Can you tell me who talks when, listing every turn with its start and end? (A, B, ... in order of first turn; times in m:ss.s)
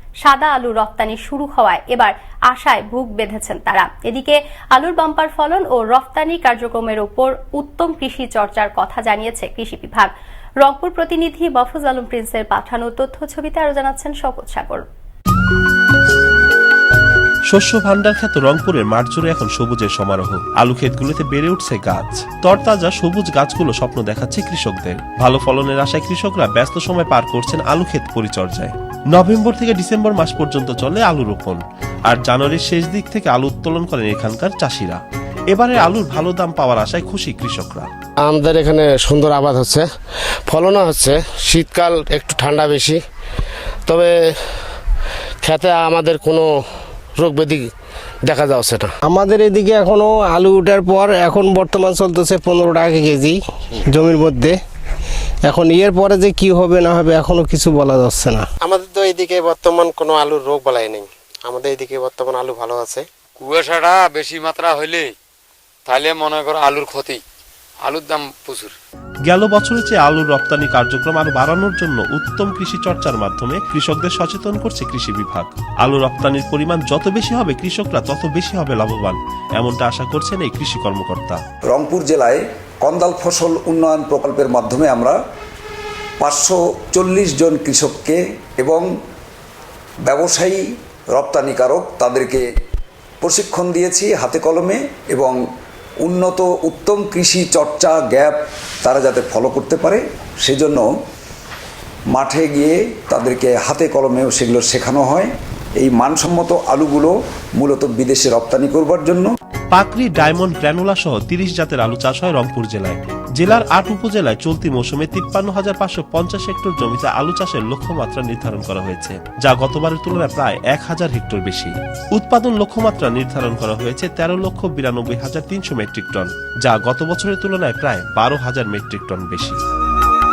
0:00.2-0:10.1 A
0:10.6-0:14.8 A
0:17.5-0:35.0 B
0:35.5-0:37.9 B
0:38.2-0:43.0 C
0:43.8-0:44.6 C
0:45.4-0:49.0 C
0:49.0-0:54.6 D
0:55.4-0:58.5 D
0:58.6-1:03.0 C
1:03.4-1:05.1 E
1:05.8-1:07.2 E
1:07.8-1:08.7 E
1:09.2-1:21.4 B
1:21.7-1:25.2 F
1:26.2-1:28.8 F
1:30.0-1:30.6 F
1:31.1-1:32.4 F
1:33.2-1:35.4 F
1:36.0-1:40.9 F
1:42.1-1:49.3 F
1:49.7-2:09.6 B